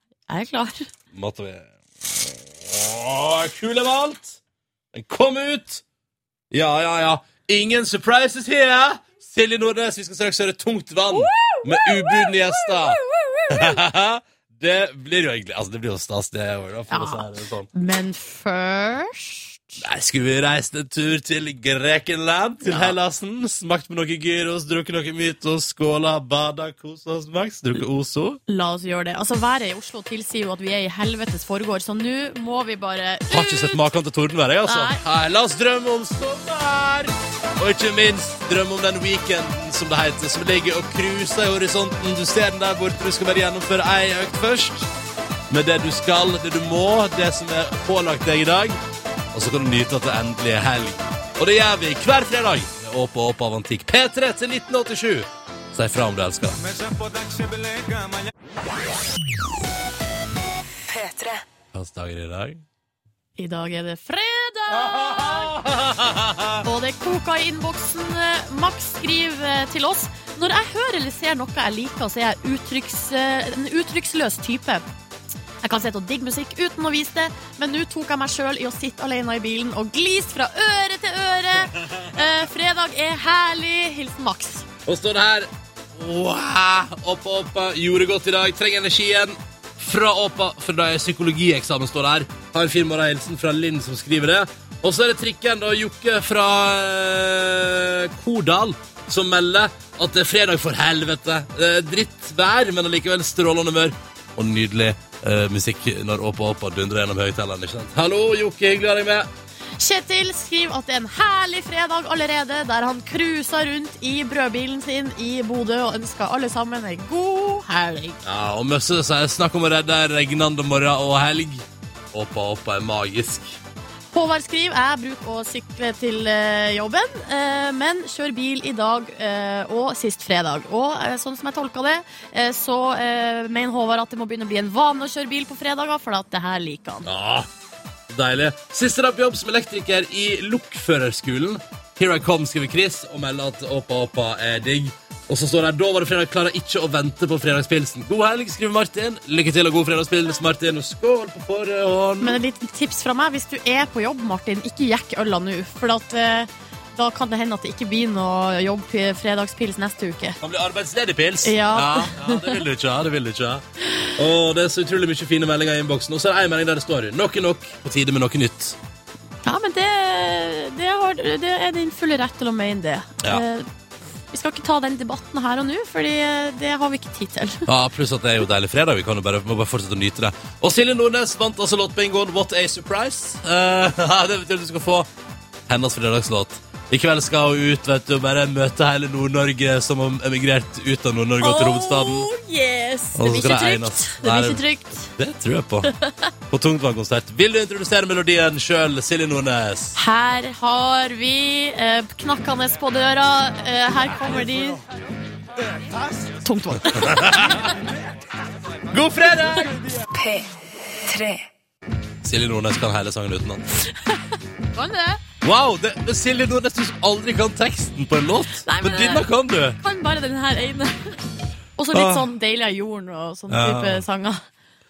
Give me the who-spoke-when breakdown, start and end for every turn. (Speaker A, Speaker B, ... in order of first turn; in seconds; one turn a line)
Speaker A: 0.3-0.8
Speaker B: 1.1-4.4
Speaker B: 4.9-5.8
Speaker B: 6.5-17.7
Speaker A: 11.1-13.8
Speaker A: 16.9-19.8
Speaker B: 19.8-28.4
Speaker A: 22.6-22.9
Speaker A: 28.5-33.8
Speaker B: 33.3-44.9
Speaker A: 34.6-35.0
Speaker B: 45.5-48.8
Speaker B: 49.3-56.6
Speaker C: 60.9-61.4
Speaker B: 61.7-62.6
Speaker A: 63.4-65.5
Speaker B: 64.7-66.6
Speaker A: 66.6-74.8
Speaker A: 75.6-84.7
Speaker B: 84.8-109.3
Speaker A: 109.8-118.2
Speaker B: 118.2-123.6
Speaker A: 124.1-137.1
Speaker B: 137.0-137.5
Speaker B: 138.1-152.4
Speaker A: 152.2-160.4
Speaker B: 160.4-163.6
Speaker A: 161.4-162.6
Speaker B: 164.2-168.8
Speaker A: 169.4-173.7
Speaker A: 174.3-177.7
Speaker B: 177.7-185.1
Speaker B: 185.7-192.3
Speaker A: 191.4-195.1
Speaker B: 193.1-195.9
Speaker B: 196.5-200.0
Speaker A: 199.9-204.8
Speaker A: 206.4-207.8
Speaker B: 206.8-207.7
Speaker B: 208.9-209.8
Speaker C: 210.1-211.4
Speaker B: 212.2-213.6
Speaker A: 214.7-215.2
Speaker B: 215.4-219.8
Speaker A: 218.6-219.3
Speaker A: 219.8-221.1
Speaker A: 221.8-224.4
Speaker B: 221.9-222.3
Speaker B: 223.5-224.0